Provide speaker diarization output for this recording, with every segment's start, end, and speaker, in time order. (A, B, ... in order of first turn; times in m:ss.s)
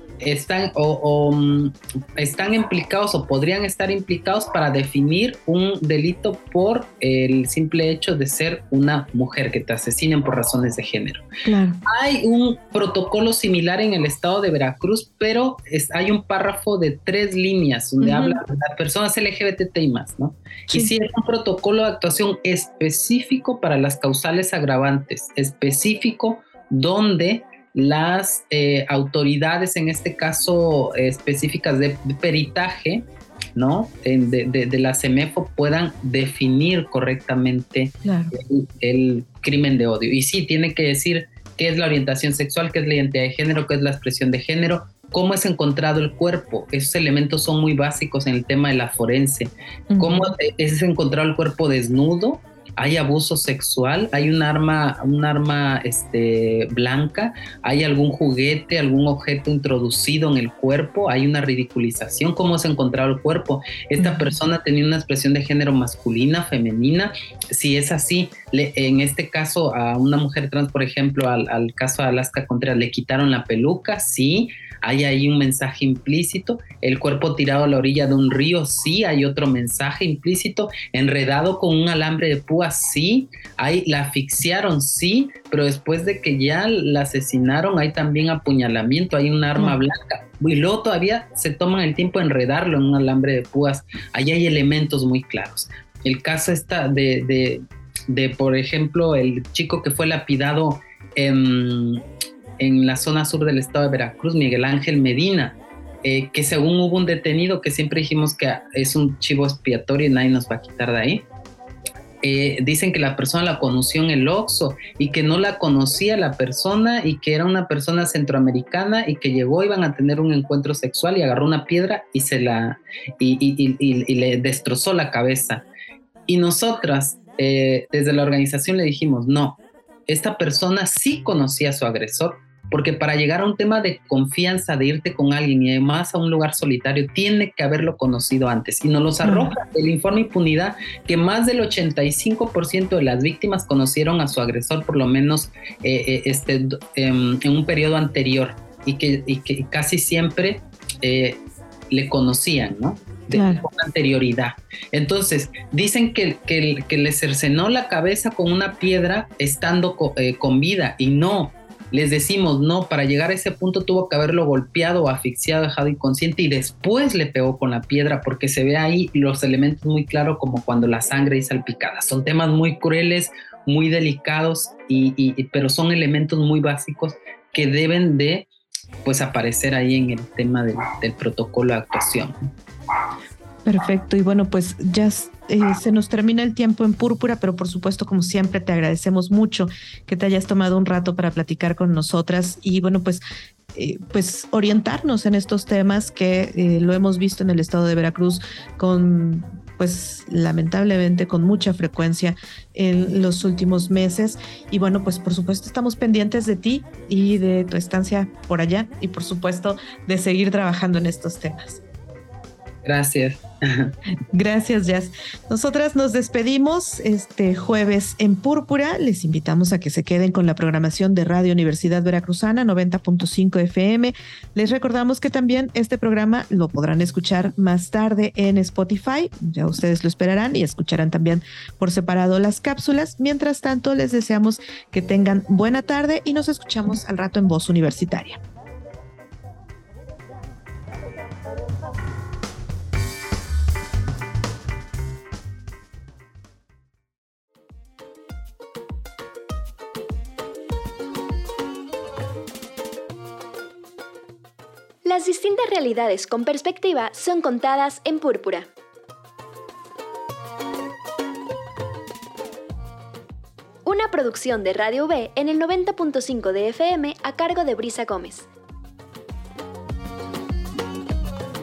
0:00.2-0:11.2 A
0:11.4-0:11.8 B
0:11.9-1:42.0 A
0:18.0-0:18.4 B
0:38.0-0:38.3 B
0:49.9-0:50.3 B
1:04.0-1:04.4 B
1:42.6-1:51.3 A
1:52.2-2:05.7 A
2:06.3-2:58.5 A
2:19.2-2:19.6 B
2:33.3-2:33.6 B
2:59.0-3:02.5 A
3:03.6-3:13.2 B
3:13.7-3:31.8 B
3:32.8-3:33.9 A
3:34.3-3:58.4 B
4:15.0-4:18.7 C
4:23.8-4:28.5 C